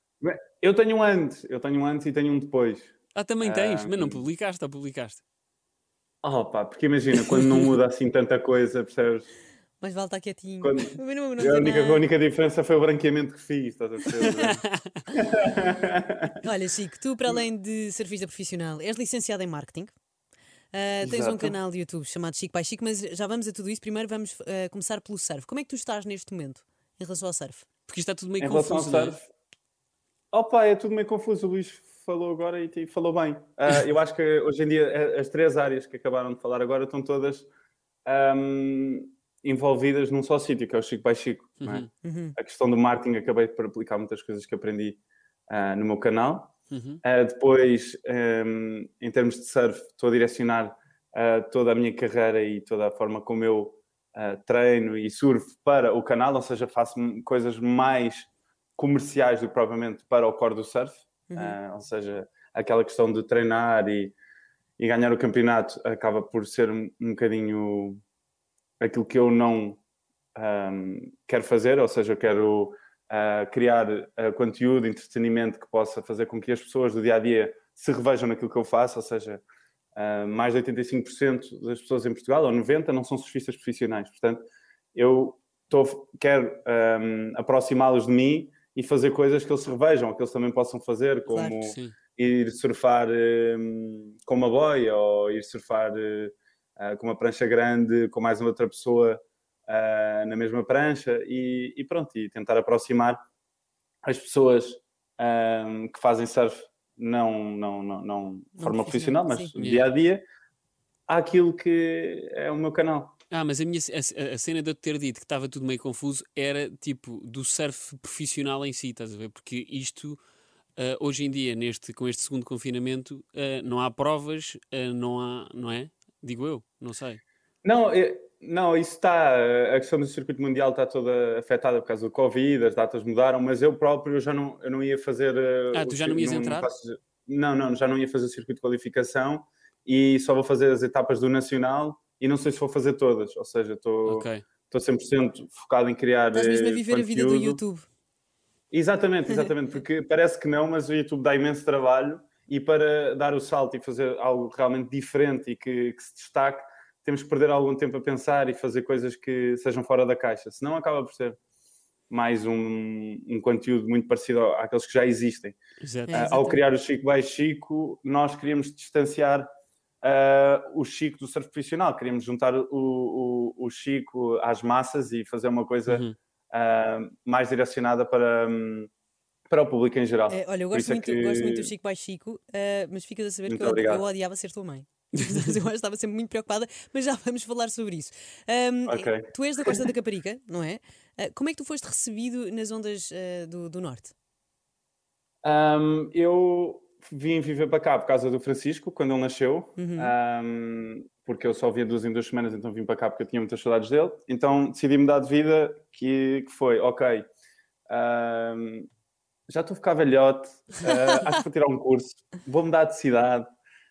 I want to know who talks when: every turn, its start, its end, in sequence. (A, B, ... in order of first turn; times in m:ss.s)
0:00.2-0:04.2 A
0:03.1-0:05.2 B
0:06.2-0:09.3 A
0:07.3-0:07.6 B
0:09.8-0:12.0 C
0:10.6-0:16.4 A
0:14.2-0:15.0 B
0:16.4-0:19.9 C
0:20.7-0:27.6 C
0:21.0-0:21.6 A
0:27.9-0:29.2 B
0:28.4-0:29.3 A
0:30.3-0:37.5 A
0:38.0-1:04.1 A
0:41.6-0:41.9 B
0:42.0-0:42.4 C
0:46.7-0:47.0 B
1:01.3-1:01.6 C
1:04.8-1:08.0 A
1:08.8-1:09.8 A
1:10.3-1:19.4 A
1:19.9-1:24.4 A
1:24.9-1:43.2 A
1:31.3-1:31.6 C
1:31.7-1:31.9 B
1:44.0-1:50.2 A
1:48.6-1:49.5 C
1:49.6-1:49.9 B
1:51.1-1:53.2 A
1:53.3-2:00.2 B
2:00.8-2:07.2 B
2:07.6-2:27.6 A
2:15.7-2:16.7 B
2:24.0-2:24.4 B
2:26.3-2:27.9 C
2:28.7-2:41.4 A
2:42.1-2:45.6 A
2:45.8-2:46.3 B
2:46.1-2:46.6 C
2:46.1-2:49.5 A
2:50.0-2:58.9 A
2:55.9-2:56.1 B
2:59.5-3:01.7 A
3:00.3-3:14.1 C
3:03.5-3:04.0 A
3:05.2-3:05.5 B
3:08.9-3:09.8 A
3:15.4-3:27.2 A
3:19.8-3:20.1 C
3:27.9-3:28.9 A
3:29.5-3:33.5 A